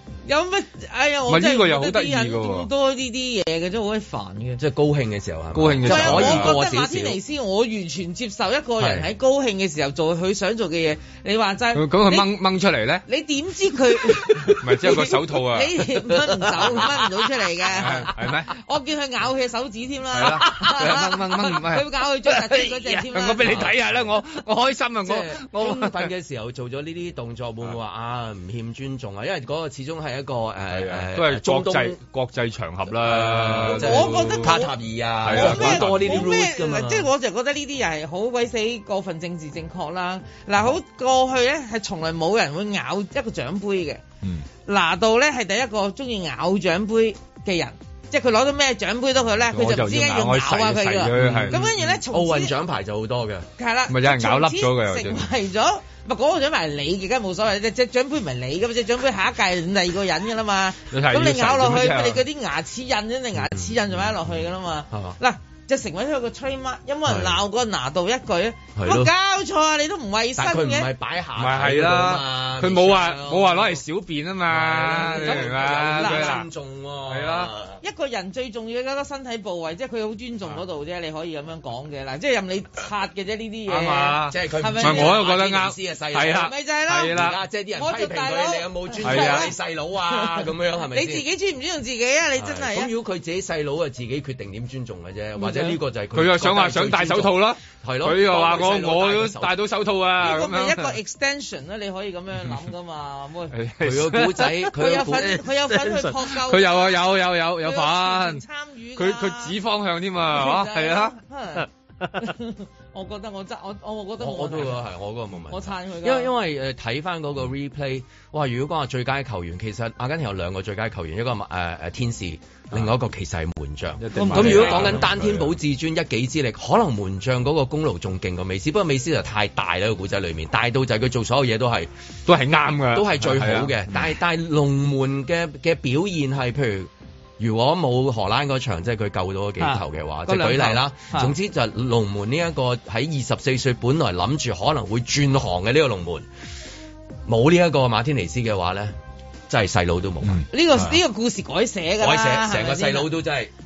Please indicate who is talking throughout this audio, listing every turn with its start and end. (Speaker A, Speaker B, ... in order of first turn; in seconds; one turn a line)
Speaker A: 0.2-4.6
Speaker B: 1.3-2.7
Speaker C: 4.6-7.2
Speaker B: 5.5-6.5
Speaker A: 5.8-12.3
Speaker C: 8.8-9.1
Speaker B: 11.7-13.0
Speaker A: 13.1-23.7
Speaker B: 14.4-16.0
Speaker B: 17.7-18.5
Speaker B: 20.1-26.1
Speaker C: 23.4-24.1
Speaker C: 25.0-32.0
Speaker B: 30.7-34.6
Speaker C: 33.0-37.1
Speaker A: 33.7-34.7
Speaker B: 35.2-36.3
Speaker A: 35.3-44.0
Speaker A: 44.6-52.5
Speaker B: 49.5-51.8
Speaker C: 51.1-53.5
Speaker A: 53.6-70.9
Speaker B: 53.9-55.2
Speaker B: 60.9-62.2
Speaker C: 63.4-63.9
Speaker C: 64.9-65.2
Speaker C: 67.0-67.4
Speaker C: 68.8-69.1
Speaker C: 70.3-73.8
Speaker B: 71.4-76.5
Speaker C: 74.5-77.8
Speaker A: 75.1-76.4
Speaker B: 77.1-77.5
Speaker A: 77.8-85.2
Speaker B: 83.7-87.4
Speaker C: 84.3-86.5
Speaker A: 86.4-87.1
Speaker C: 87.1-91.2
Speaker A: 87.8-89.5
Speaker B: 89.0-89.5
Speaker A: 90.1-92.9
Speaker C: 92.4-99.6
Speaker B: 96.1-101.0
Speaker A: 100.2-103.5
Speaker B: 103.5-104.6
Speaker C: 103.8-106.0
Speaker A: 104.7-109.6
Speaker B: 105.9-108.4
Speaker B: 109.0-111.1
Speaker A: 110.2-114.8
Speaker C: 114.2-131.9
Speaker A: 115.5-116.3
Speaker B: 124.0-125.5
Speaker A: 124.1-125.0
Speaker B: 132.3-134.1
Speaker C: 132.9-146.3
Speaker A: 139.6-141.3
Speaker C: 147.2-148.9
Speaker C: 149.5-150.4
Speaker B: 150.2-151.0
Speaker A: 150.5-153.1
Speaker C: 152.0-153.5